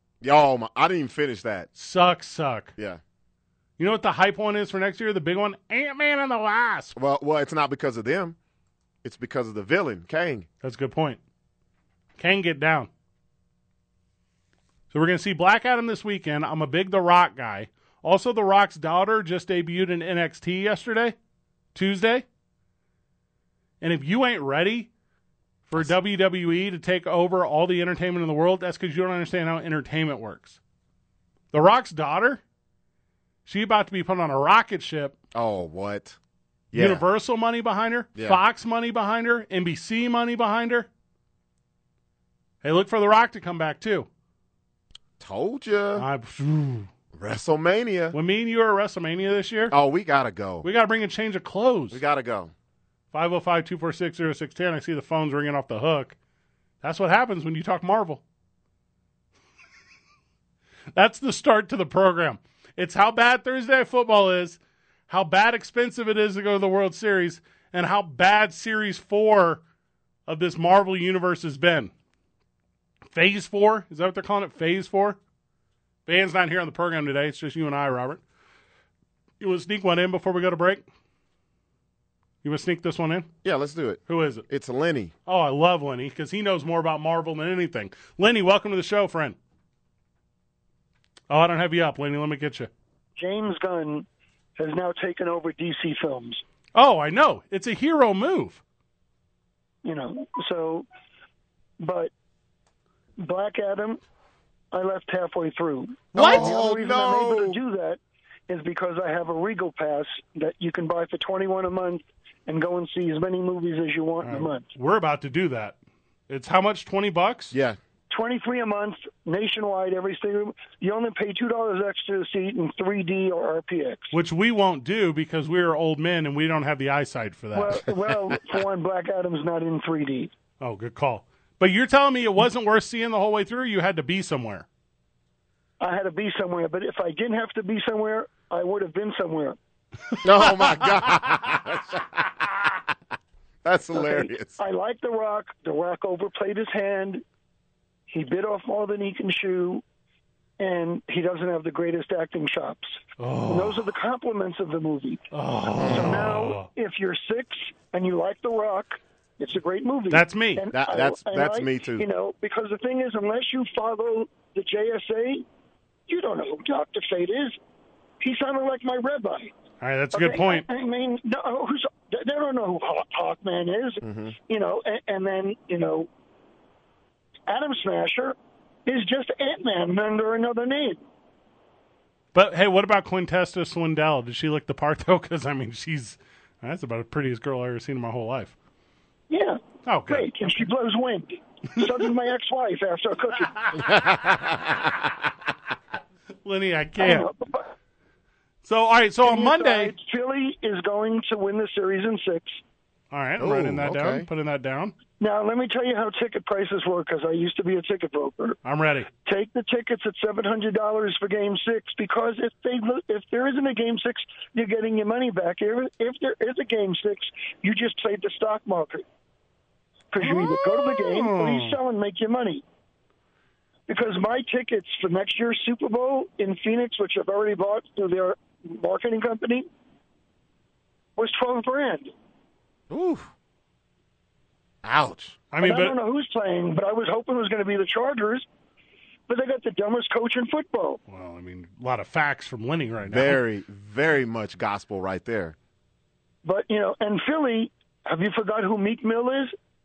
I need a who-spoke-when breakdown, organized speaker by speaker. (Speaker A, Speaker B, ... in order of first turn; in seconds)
Speaker A: 0.2-1.7, 7.0-8.4, 9.0-10.5, 35.3-36.2, 36.7-37.0, 38.1-38.4, 45.2-46.1, 47.1-48.2, 49.7-50.7, 51.9-52.5, 83.4-85.1, 106.2-107.6, 117.5-117.8, 140.2-142.8, 143.6-144.6, 155.8-156.1, 160.7-162.1, 174.0-174.3, 193.8-195.1, 203.4-204.3, 232.9-233.3, 234.8-235.4, 243.1-245.6
Speaker B: 1.8-2.7, 3.8-7.0, 10.6-11.2, 12.2-12.9, 14.9-21.1, 21.7-22.2, 23.8-24.9, 25.7-30.6, 31.5-32.4, 33.5-35.2, 36.7-40.9, 42.6-44.1, 46.0-46.9, 48.1-49.7, 50.6-52.0, 53.1-56.2, 56.8-58.2, 60.9-69.6, 70.3-71.9, 73.1-75.2, 76.1-78.2, 79.4-80.9, 82.4-83.3, 84.1-84.5, 85.3-89.4, 91.3-92.7, 96.8-98.6, 106.1-106.5, 114.2-115.8, 116.3-117.5, 124.1-127.8, 130.6-134.7, 140.2-141.1, 153.2-153.8, 155.3-156.7, 160.1-160.7, 169.8-170.7, 182.3-188.6, 189.8-190.3, 196.4-197.3, 198.6-199.9, 203.1-204.9, 208.7-209.1, 220.2-221.8, 235.5-236.0, 241.1-243.4
Speaker C: 93.2-96.4, 99.8-100.9, 101.8-102.1, 103.2-104.0, 104.7-114.7, 118.1-124.2, 127.5-130.3, 135.8-139.6, 143.9-147.2, 148.1-149.8, 150.6-155.3, 155.8-165.4, 166.1-167.6, 168.2-169.5, 170.1-176.1, 177.5-181.0, 189.3-193.9, 197.0-197.7, 199.2-202.6, 205.2-208.6, 209.2-219.1, 220.1-222.6, 223.9-229.7, 231.2-232.1, 235.6-238.5, 239.3-241.0, 246.4-249.6